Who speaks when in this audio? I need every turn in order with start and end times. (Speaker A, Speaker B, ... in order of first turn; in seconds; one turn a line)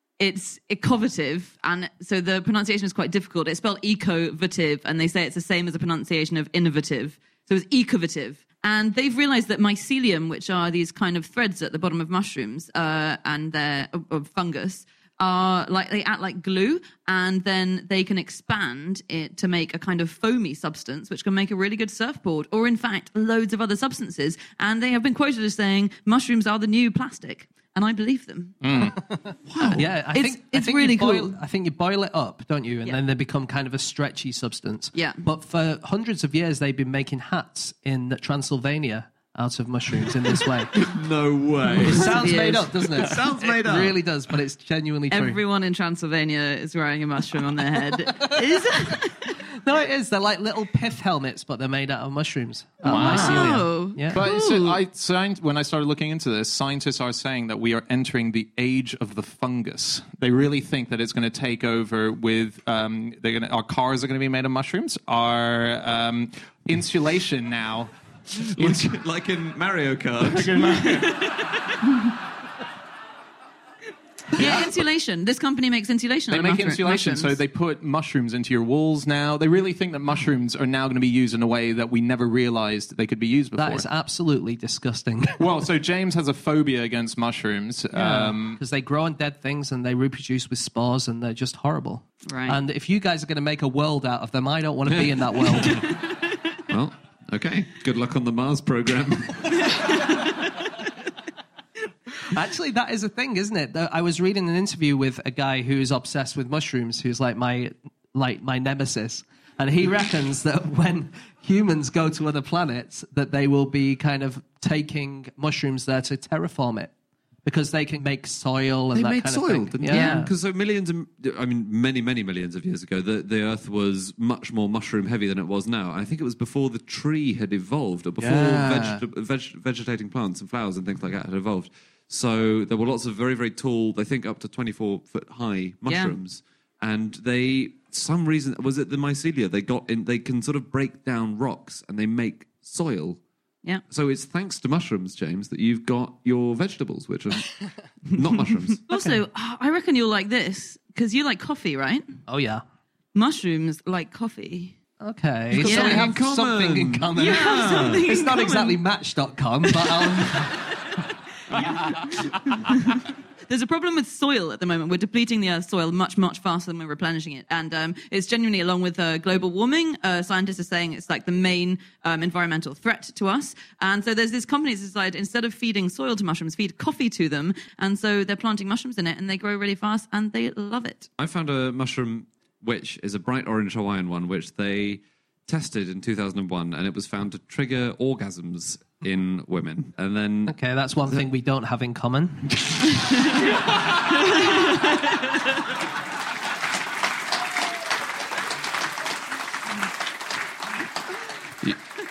Speaker A: 0.2-28.9
Speaker B: 28.6-29.0
Speaker C: 29.5-29.9
Speaker A: 29.6-31.4
Speaker D: 29.7-40.9
Speaker A: 34.9-35.2
Speaker C: 40.8-44.0
Speaker D: 41.7-45.4
Speaker A: 41.7-42.8
Speaker A: 45.1-49.4
Speaker D: 49.5-54.3
Speaker B: 52.8-53.6
Speaker A: 52.9-54.8
Speaker B: 54.1-68.8
Speaker C: 68.3-70.7
Speaker B: 70.2-71.3
Speaker A: 70.8-71.9
Speaker A: 74.3-77.3
Speaker C: 74.4-74.7
Speaker B: 76.3-83.8
Speaker D: 83.5-85.4
Speaker B: 85.4-88.6
Speaker D: 87.9-95.9
Speaker A: 92.2-92.6
Speaker C: 94.9-100.0
Speaker A: 99.7-100.7
Speaker D: 102.2-116.9
Speaker D: 117.4-120.3
Speaker C: 118.9-143.2
Speaker A: 119.9-120.3
Speaker B: 128.2-129.0
Speaker A: 135.9-136.1
Speaker C: 143.9-148.8
Speaker A: 148.8-152.2
Speaker D: 148.9-149.2
Speaker D: 152.3-152.6
Speaker A: 153.1-154.8
Speaker D: 155.0-160.7
Speaker C: 155.5-158.1
Speaker A: 155.6-156.1
Speaker A: 157.1-158.8
Speaker A: 159.8-160.1
Speaker A: 160.9-181.1
Speaker C: 181.2-190.6
Speaker D: 190.5-193.1
Speaker A: 194.2-195.0